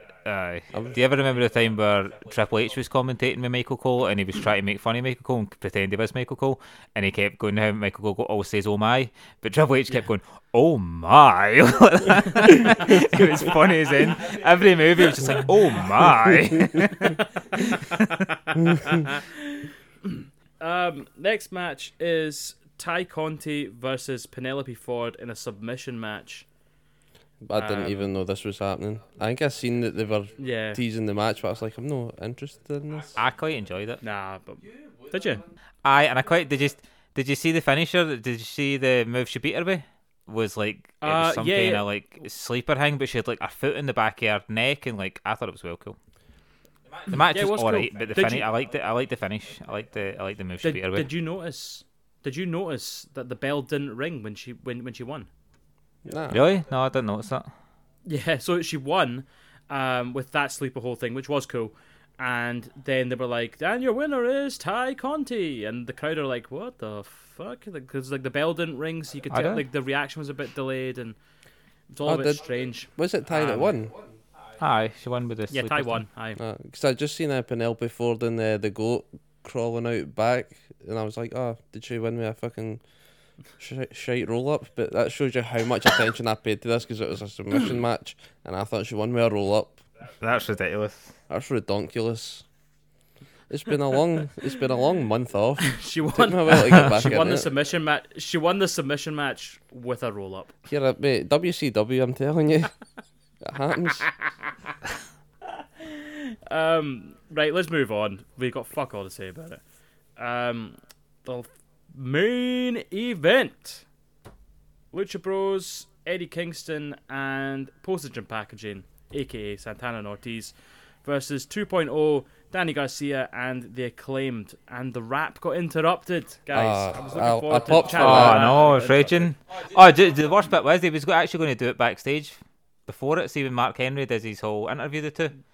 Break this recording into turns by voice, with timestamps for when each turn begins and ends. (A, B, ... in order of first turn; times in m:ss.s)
0:00.2-0:18.2 A
0:00.7-0:01.0 B
0:17.0-0:18.0 C
0:18.7-0:26.4 C
0:27.4-0:33.2 B
0:27.6-0:28.1 C
0:30.4-0:30.8 C
0:33.2-0:34.0 A
0:34.0-0:35.4 C
0:35.8-0:46.0 A
0:41.0-0:41.8 C
0:47.1-0:51.1 A
0:47.2-0:48.5 C
0:50.6-0:55.3 C
0:56.0-0:56.4 B
0:56.3-0:57.5 A
0:58.0-1:11.2 C
1:09.3-1:09.6 A
1:11.9-1:13.7 C
1:12.0-1:14.0 B
1:14.6-1:16.0 A
1:15.5-1:16.4 C
1:16.4-1:22.8 B
1:23.6-1:29.8 B
1:30.2-1:31.1 A
1:31.3-1:32.4 B
1:33.5-1:37.5 B
1:35.6-1:40.5 C
1:40.7-1:42.7 B
1:43.4-1:44.1 B
1:45.6-1:49.6 C
1:50.2-1:53.8 C
1:54.9-2:09.3 C
2:06.5-2:08.6 B
2:08.0-2:15.4 A